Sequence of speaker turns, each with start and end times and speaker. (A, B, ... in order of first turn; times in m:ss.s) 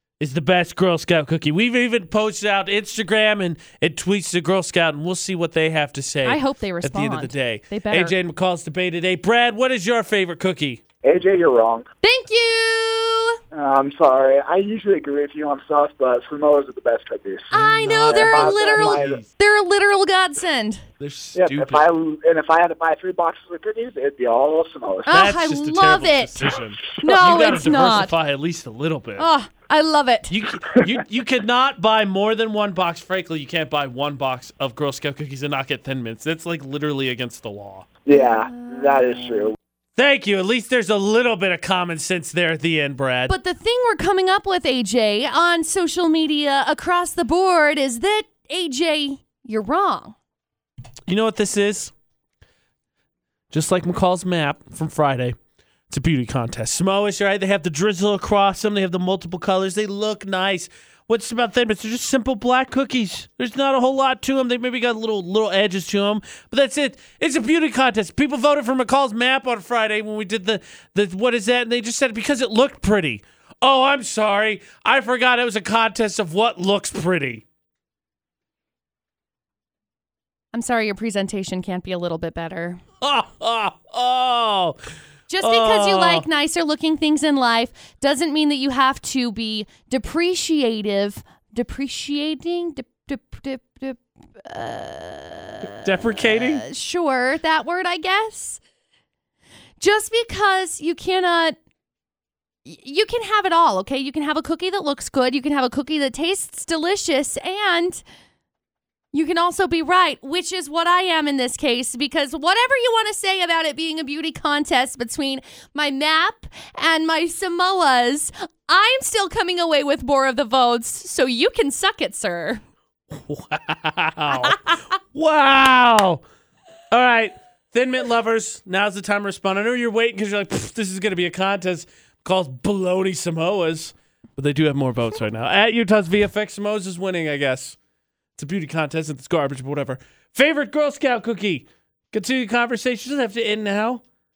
0:00.2-0:10.8 A
0:06.2-0:08.1 B
0:11.0-0:11.8 C
0:12.0-0:13.4 B
0:13.5-0:19.2 C
0:17.5-0:20.8 B
0:17.5-0:19.3 A
0:21.0-0:21.9 A
0:21.4-0:25.2 C
0:25.0-0:28.1 B
0:25.1-0:29.3 A
0:27.0-0:27.4 C
0:29.2-0:30.3 B
0:30.3-0:37.9 A
0:38.0-0:39.5 C
0:38.1-0:39.5 B
0:40.0-0:43.3 A
0:43.3-0:50.1 B
0:51.1-0:51.9 A
0:53.5-0:55.4 A
0:55.9-1:17.4 A
1:20.5-1:22.8 B
1:23.0-1:24.8 A
1:25.3-1:38.6 B
1:25.4-1:26.3 A
1:35.6-1:36.6 A
1:39.8-1:41.6 B
1:42.6-1:48.0 B
1:49.1-2:02.6 B
2:03.1-2:06.2 A
2:04.3-2:04.8 B
2:06.9-2:17.8 A
2:18.4-2:24.0 A